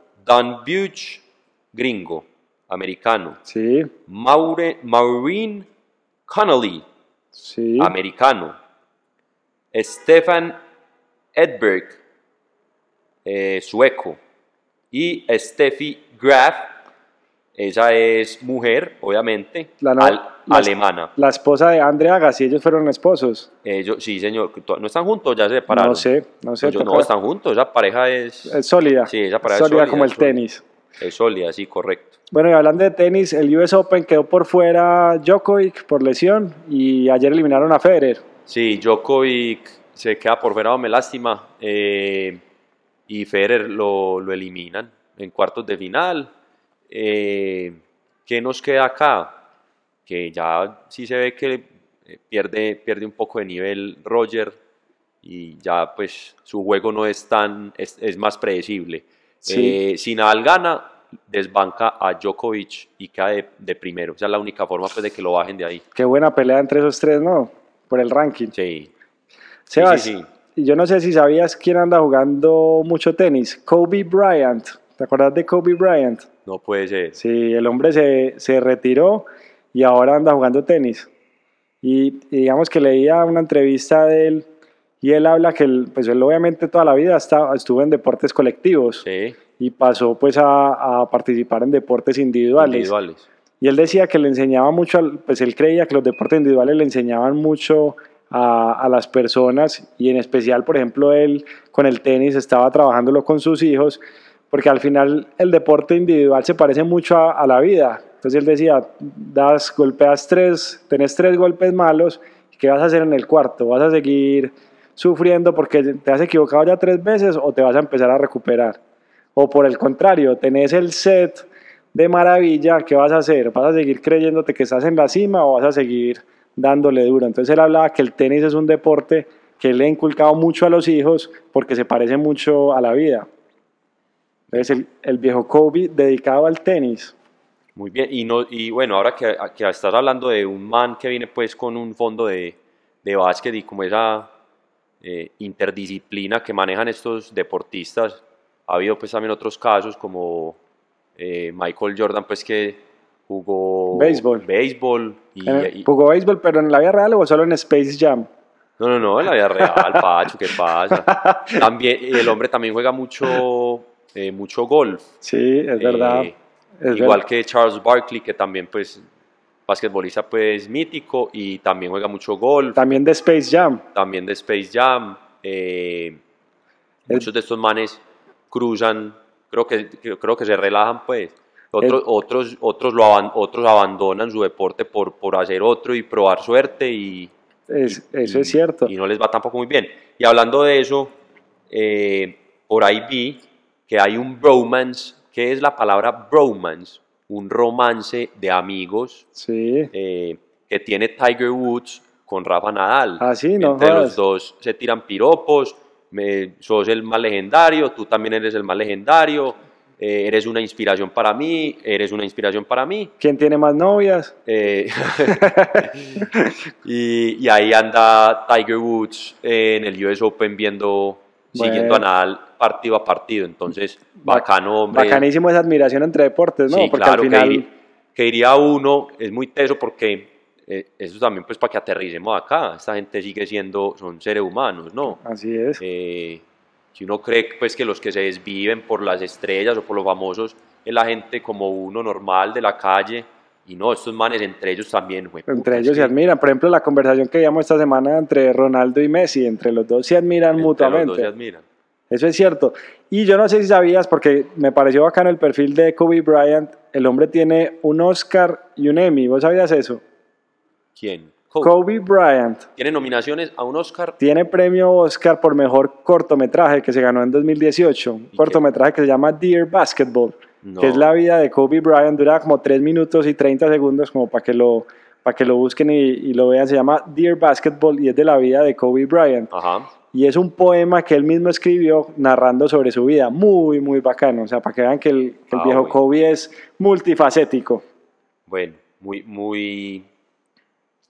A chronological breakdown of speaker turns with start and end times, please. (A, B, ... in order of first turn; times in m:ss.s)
0:00.2-0:03.4 A
0:03.5-0:03.9 B
0:04.1-0:05.7 A
0:06.3-0:06.8 A
0:07.3-0:08.0 B
0:07.8-0:08.6 A
0:09.7-0:10.6 A
0:11.3-0:12.0 A
0:13.2-0:14.2 A
0:14.9-0:16.7 A
0:17.6-0:21.1 A
0:19.8-0:23.5 B
0:23.6-0:26.1 A
0:25.7-0:27.1 B
0:26.6-0:30.4 A
0:28.5-0:30.6 B
0:31.0-0:32.1 A
0:32.3-0:38.2 B
0:38.5-0:42.4 A
0:43.1-0:46.3 A
0:46.9-0:49.4 A
0:50.1-0:54.6 A
0:55.2-1:05.8 A
0:59.4-0:59.8 B
1:06.0-1:08.5 B
1:08.5-1:08.9 A
1:09.7-1:16.3 B
1:09.8-1:10.3 A
1:16.4-1:17.2 A
1:17.2-1:21.1 B
1:21.8-1:24.5 B
1:25.0-1:29.0 B
1:29.0-1:29.4 A
1:29.6-1:32.9 B
1:32.6-1:33.2 A
1:33.6-1:58.8 B
1:59.3-2:13.3 B
2:14.5-2:17.1 B
2:17.8-2:24.3 A
2:25.0-2:30.6 A
2:31.2-2:35.9 A
2:33.9-2:34.4 B
2:35.5-2:38.3 B
2:38.8-2:45.0 A
2:39.6-2:40.0 B
2:40.9-2:41.6 B
2:45.2-2:47.2 B
2:45.8-2:46.4 A
2:46.9-2:49.0 A
2:49.7-2:53.0 A
2:52.8-2:53.8 B
2:53.9-2:56.2 A
2:57.1-3:07.3 A
3:07.7-3:08.9 B
3:07.8-3:11.1 A
3:11.7-3:19.3 A
3:19.3-3:19.9 B
3:19.9-3:33.1 A
3:23.2-3:24.2 B
3:33.2-3:34.3 B
3:34.5-3:36.3 A
3:35.3-3:36.5 B
3:36.8-3:45.3 A
3:41.5-3:42.0 B
3:44.2-3:47.7 B
3:46.7-3:55.2 A
3:55.2-3:55.8 B
3:55.8-3:56.4 A
3:57.0-4:06.1 A
4:05.5-4:11.3 B
4:10.6-4:11.6 A
4:12.1-4:20.0 B
4:21.0-4:21.8 A
4:21.6-4:22.6 B
4:22.8-4:24.2 A
4:24.2-4:39.5 B
4:28.3-4:28.6 A
4:30.6-4:31.1 A
4:39.5-4:39.9 A
4:40.1-4:47.8 B
4:45.5-4:46.0 A
4:48.5-4:50.1 A